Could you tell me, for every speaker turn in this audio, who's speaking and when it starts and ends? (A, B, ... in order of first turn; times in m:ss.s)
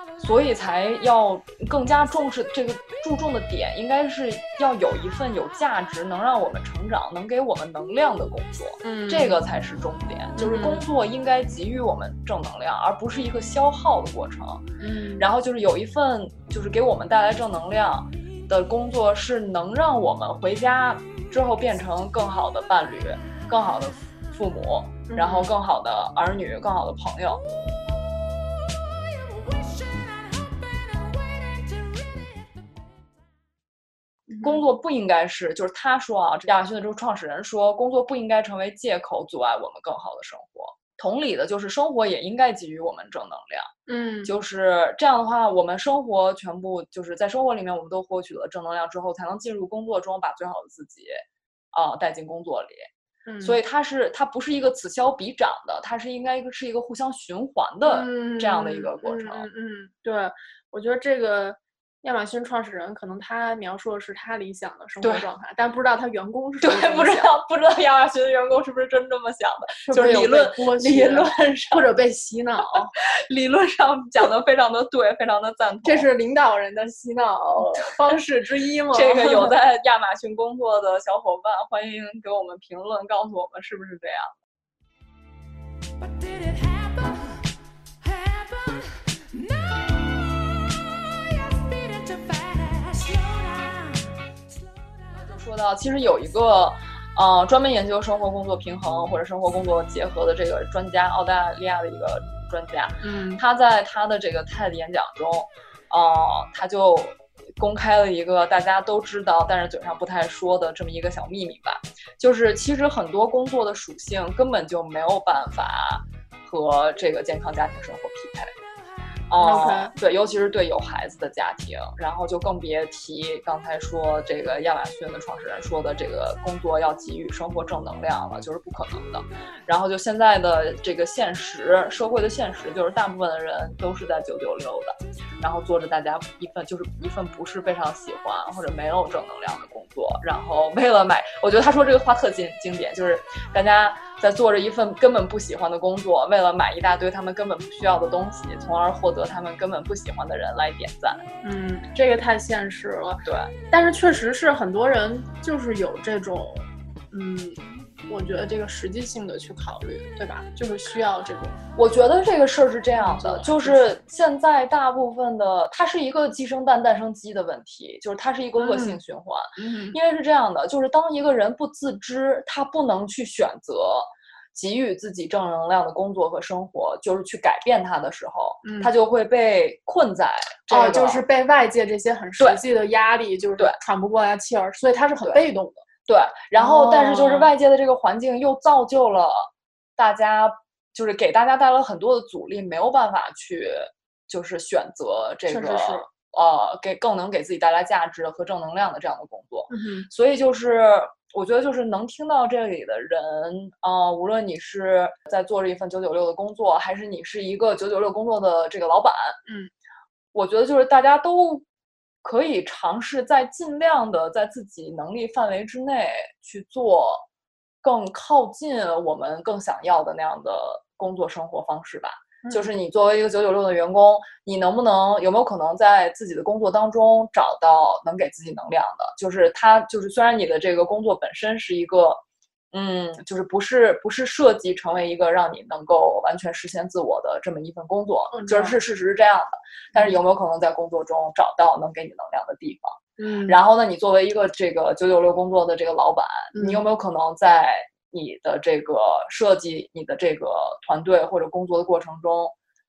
0:00.2-0:14.6 A
0:08.8-0:09.4 B
0:10.4-0:10.8 B
0:14.8-0:15.3 B
0:15.2-0:27.4 A
0:25.1-0:25.5 B
0:28.7-0:33.1 C
0:34.3-0:34.6 B
0:34.4-0:43.7 A
0:43.9-0:44.3 B
0:44.2-0:52.9 A
0:53.2-0:53.6 B
0:53.4-0:59.4 A
0:57.9-1:07.3 B
1:06.6-1:11.8 A
1:09.8-1:12.9 B
1:12.9-1:16.0 A
1:15.8-1:19.5 B
1:17.6-1:18.1 A
1:18.9-1:24.4 A
1:26.0-1:35.3 C
1:35.2-1:58.5 A
1:43.0-1:43.4 B
1:59.3-2:31.2 A
1:59.4-1:59.9 B
2:31.4-2:41.6 B
2:33.2-2:33.5 A
2:41.8-3:01.2 A
2:43.0-2:43.8 B
2:48.6-2:49.0 B
2:49.6-2:50.0 B
2:58.6-2:58.9 B
3:00.7-3:05.8 B
3:06.1-3:29.4 A
3:06.6-3:07.5 B
3:15.5-3:16.1 B
3:19.7-3:20.1 B
3:29.4-3:29.7 B
3:30.3-3:31.6 A
3:32.2-3:37.2 A
3:37.8-4:12.5 A
3:42.4-3:42.7 B
3:58.3-3:58.8 B
4:03.2-4:03.6 B
4:06.5-4:06.8 B